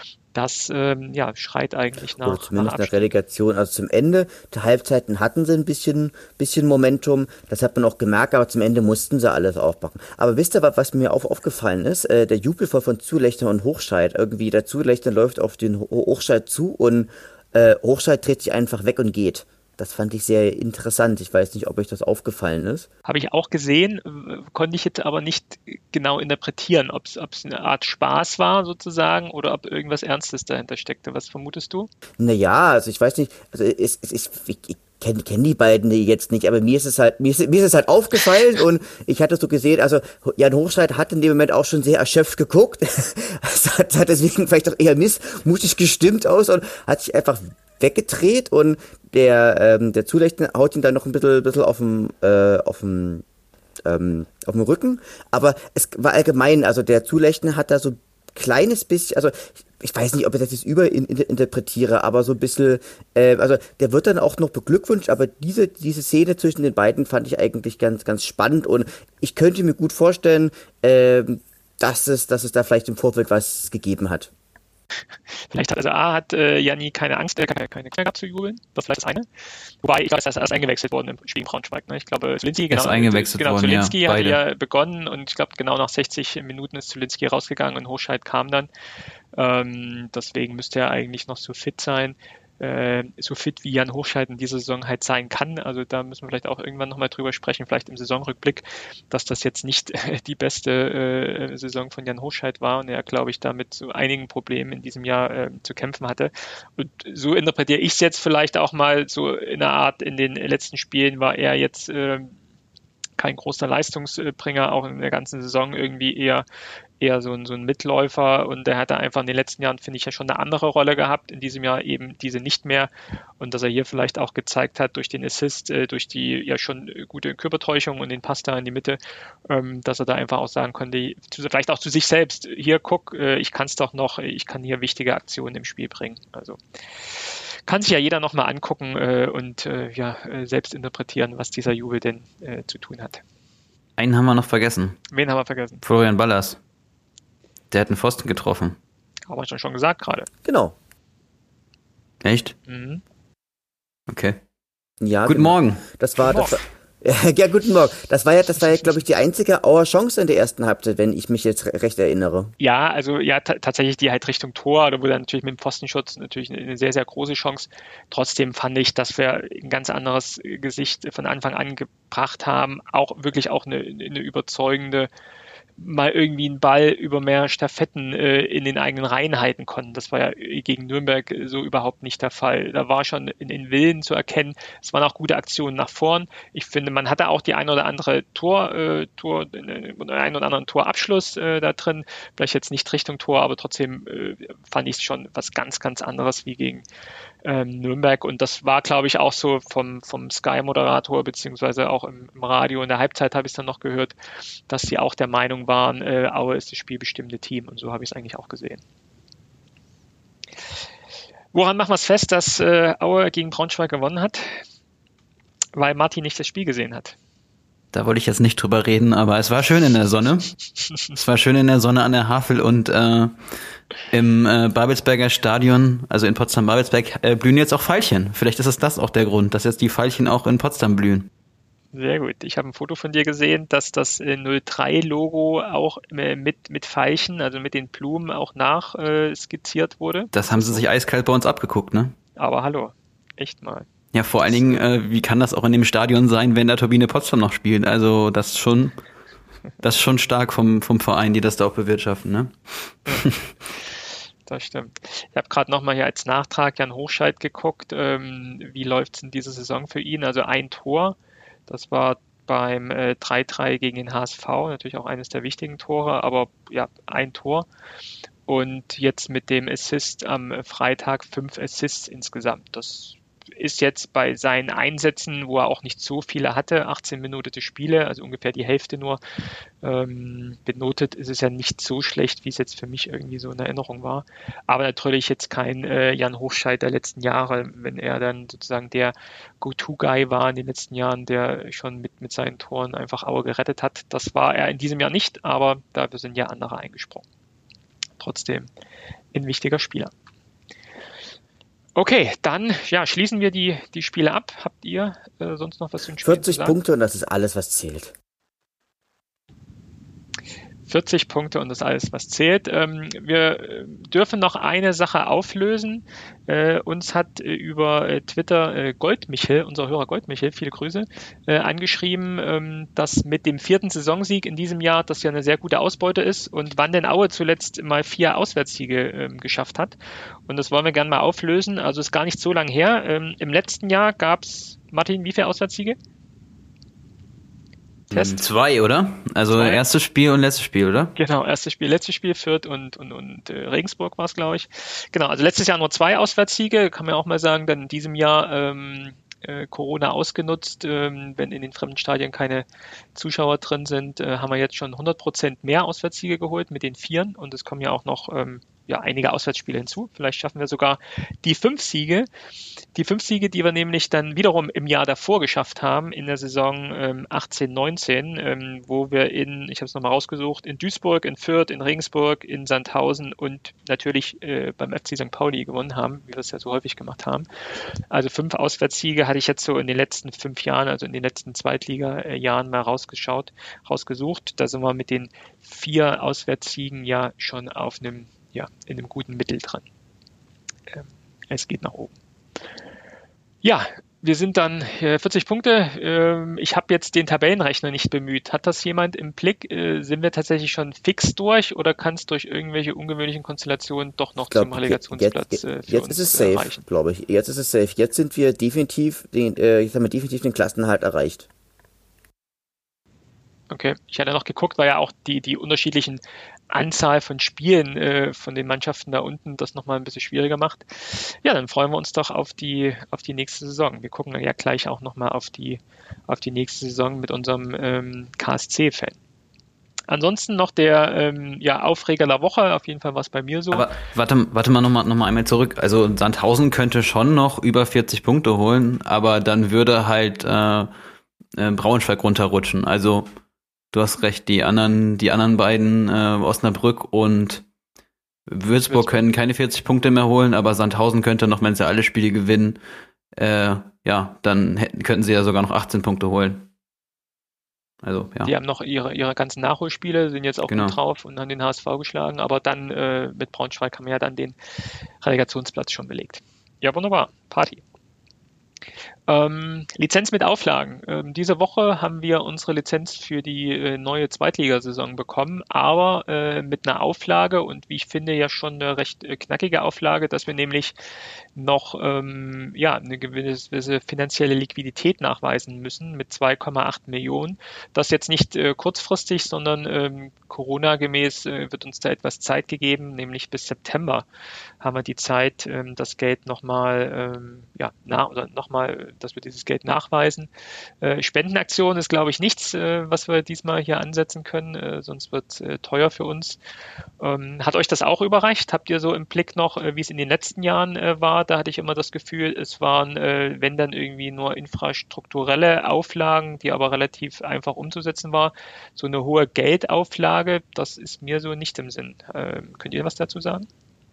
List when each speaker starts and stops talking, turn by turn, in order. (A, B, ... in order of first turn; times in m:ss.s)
0:00.3-0:03.1 A
0:02.2-0:22.9 B
0:23.1-0:31.9 A
0:32.2-0:53.2 B
0:53.8-1:14.3 B
1:15.5-1:19.3 A
1:19.8-1:28.7 A
1:22.7-1:24.4 C
1:29.4-1:52.4 A
1:53.2-1:56.4 A
1:57.0-2:16.6 A
2:17.2-2:23.2 A
2:24.0-2:25.0 C
2:25.1-2:25.8 A
2:25.8-2:26.6 C
2:27.7-2:28.8 C
2:29.3-2:30.3 A
2:30.4-2:30.8 B
2:32.2-2:32.6 C
2:32.7-2:33.0 A
2:34.1-2:34.4 C
2:35.0-2:42.5 B
2:35.2-2:35.8 C
2:36.2-2:36.6 A
2:42.6-2:55.1 A
2:55.8-3:16.8 A
3:17.4-3:24.1 A
3:24.7-3:28.8 A
3:31.5-3:34.6 A
3:35.8-3:37.2 A
3:37.9-3:40.5 C
3:41.1-3:43.3 C
3:44.1-3:51.3 C
3:51.9-4:00.9 A
4:00.3-4:02.2 C
4:02.4-4:03.9 A
4:04.1-4:09.0 C
4:04.4-4:04.8 A
4:09.8-4:13.4 C
4:14.5-4:21.2 A
4:21.7-4:27.7 A
4:28.5-4:39.2 A
4:39.8-4:57.2 A
4:58.2-4:58.7 A
4:59.3-5:00.1 A
5:02.0-5:06.8 A
5:06.2-5:08.1 B
5:10.9-5:30.0 A
5:30.5-5:36.0 A
5:38.1-5:41.1 C
5:38.1-5:38.4 A
5:39.5-5:39.8 A
5:41.2-6:02.3 A
6:02.9-6:17.5 A
6:18.1-6:29.8 A
6:30.9-6:32.1 A
6:33.6-6:46.8 A
6:44.5-6:51.5 B
6:53.7-7:09.2 A
7:10.1-7:13.9 A
7:13.7-7:20.9 C
7:21.6-7:23.3 C
7:23.9-7:27.6 C
7:28.5-7:32.8 C
7:28.9-7:29.2 A
7:33.4-7:36.7 C
7:38.0-7:38.5 C
7:38.4-7:44.6 A
7:40.7-7:41.0 C
7:45.2-7:47.8 A
7:49.3-8:00.9 A
8:01.6-8:14.3 A
8:14.8-8:20.5 A
8:21.0-8:26.6 A
8:27.2-8:43.7 A